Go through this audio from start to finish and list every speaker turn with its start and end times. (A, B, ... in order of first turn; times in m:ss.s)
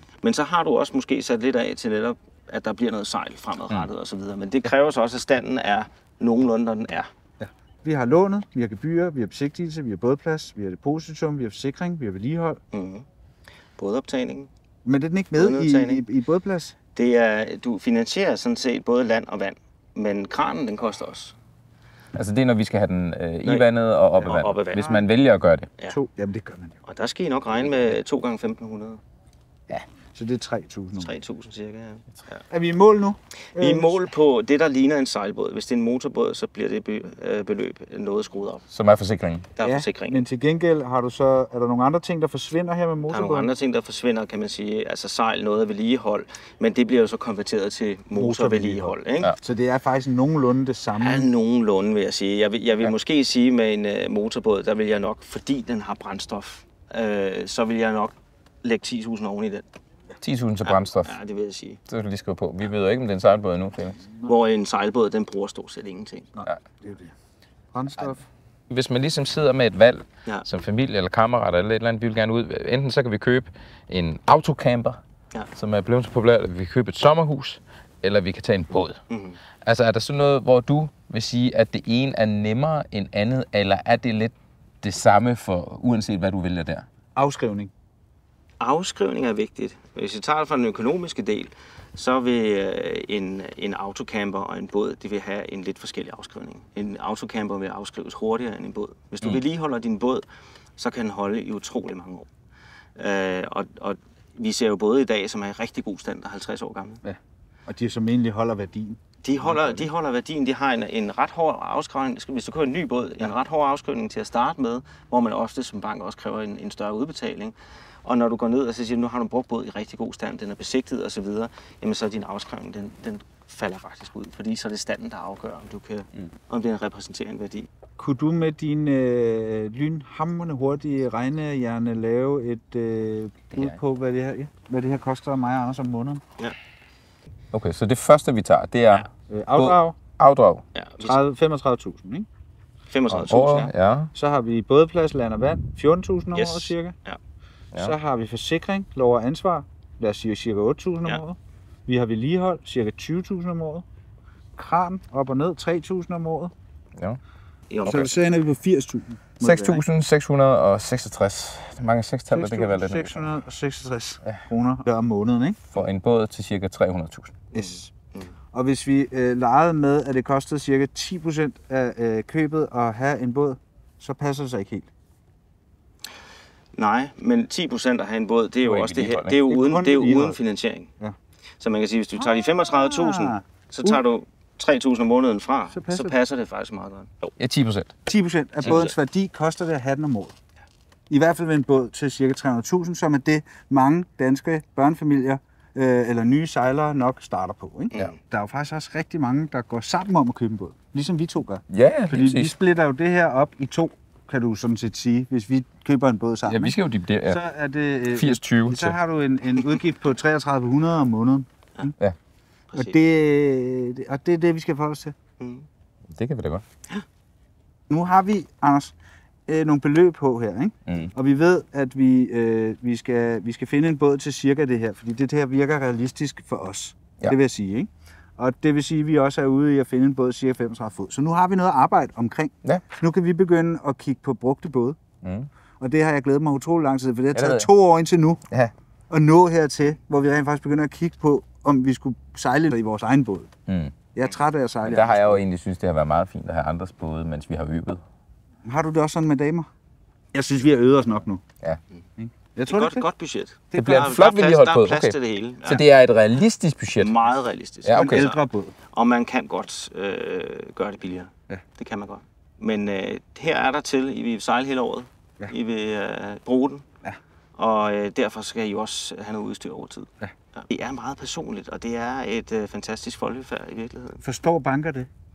0:00.2-0:07.1 A
0:07.4-0:12.6 B
0:12.7-0:13.0 A
0:13.8-0:14.5 A
0:14.8-0:16.7 B
0:15.3-0:16.0 A
0:16.9-0:21.3 A
0:22.1-0:25.7 C
0:24.3-0:25.0 A
0:25.9-0:26.8 B
0:26.8-0:29.0 A
0:30.1-0:31.1 B
0:31.0-0:32.4 A
0:32.5-0:34.0 B
0:33.5-0:38.6 A
0:38.7-0:39.5 C
0:39.6-0:40.2 A
0:39.6-0:43.5 B
0:43.1-0:49.3 A
0:48.1-0:51.3 B
0:51.0-0:59.6 A
1:00.2-1:01.1 C
1:00.6-1:01.8 A
1:01.9-1:04.0 C
1:04.2-1:06.3 A
1:06.3-1:07.1 B
1:07.7-1:08.2 B
1:08.7-1:15.0 C
1:15.5-1:19.0 C
1:19.1-1:19.4 A
1:19.6-1:26.8 C
1:27.1-1:27.7 B
1:28.6-1:40.2 A
1:40.8-1:42.3 A
1:43.0-1:47.0 A
1:47.0-1:49.8 B
1:49.2-2:07.7 A
2:08.0-2:16.2 B
2:13.5-2:13.8 C
2:17.5-2:20.6 C
2:19.3-2:20.0 B
2:20.7-2:21.2 A
2:21.0-2:22.3 B
2:22.9-2:23.7 A
2:23.1-2:24.1 C
2:24.1-2:26.9 B
2:26.3-2:27.2 A
2:27.8-2:33.8 B
2:34.6-2:36.5 B
2:37.7-2:38.1 A
2:37.8-2:39.8 B
2:39.4-2:43.3 C
2:42.3-2:45.7 B
2:45.7-2:47.3 C
2:47.5-2:47.9 B
2:47.5-2:48.3 A
2:48.5-2:54.9 B
2:56.7-3:00.9 A
2:58.6-2:59.4 C
2:59.5-3:00.4 B
3:01.6-3:07.3 A
3:02.2-3:04.0 B
3:05.7-3:06.2 B
3:07.4-3:07.9 C
3:08.0-3:10.3 B
3:08.6-3:09.0 A
3:11.1-3:31.9 B
3:21.7-3:22.5 C
3:26.4-3:27.4 C
3:28.1-3:29.0 C
3:32.7-3:33.0 A
3:32.7-3:35.1 B
3:35.4-3:35.7 A
3:36.1-3:36.6 C
3:37.9-3:38.9 B
3:39.5-3:55.0 B
3:55.2-3:55.5 C
3:55.8-3:58.4 B
3:57.3-3:57.7 C
3:59.1-4:03.5 B
4:03.7-4:03.9 C
4:04.1-4:05.4 B
4:04.8-4:08.0 C
4:08.6-4:09.7 B
4:10.3-4:11.4 B
4:12.2-4:13.0 B
4:12.7-4:15.8 A
4:13.7-4:17.1 C
4:17.0-4:26.8 A
4:17.8-4:18.3 C
4:18.0-4:18.7 B
4:27.6-4:34.2 A
4:34.2-4:35.1 B